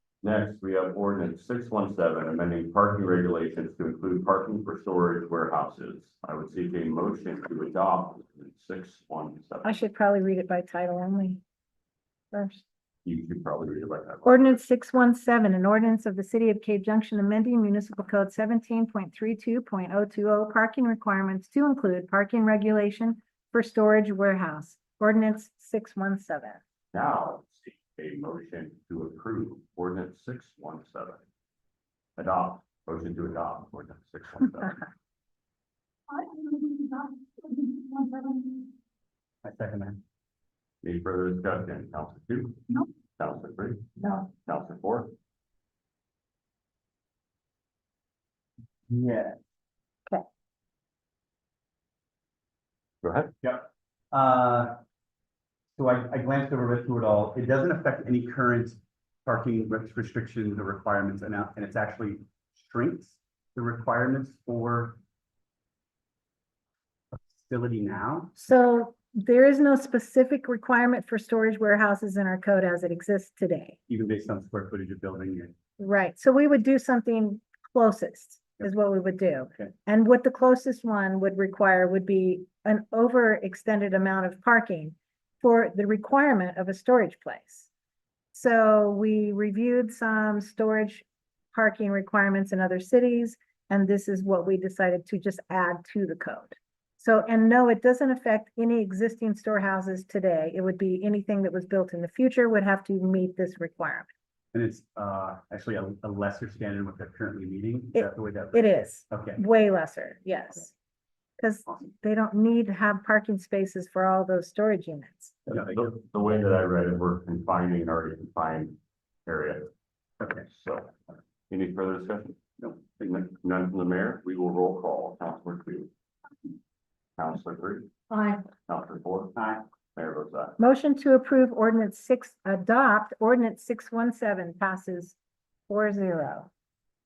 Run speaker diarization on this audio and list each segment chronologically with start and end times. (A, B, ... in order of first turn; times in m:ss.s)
0:00.2-0:09.8 A
0:09.6-0:11.4 B
0:12.3-0:12.6 B
0:13.0-0:14.6 A
0:14.2-0:26.6 B
0:26.9-0:31.2 A
0:32.2-0:34.8 A
0:36.1-0:38.7 C
0:39.4-0:40.0 D
0:40.8-0:42.6 A
0:43.2-0:45.1 A
0:48.9-0:49.4 D
0:53.0-0:53.3 A
0:53.4-0:54.7 D
0:55.8-1:05.0 D
1:07.1-1:08.3 D
1:08.4-1:13.8 B
1:13.9-1:15.5 D
1:15.8-1:27.7 B
1:28.3-1:44.1 B
1:44.5-1:49.4 D
1:47.9-1:50.7 B
1:51.4-1:55.4 B
1:55.5-1:59.7 A
1:55.5-1:55.8 D
2:00.2-2:00.4 D
2:00.5-2:05.9 A
2:02.6-2:02.9 D
2:07.2-2:07.9 A
2:08.1-2:08.4 B
2:08.7-2:09.3 A
2:09.4-2:09.6 D
2:09.9-2:10.6 A
2:10.6-2:15.2 B
2:15.7-2:16.5 B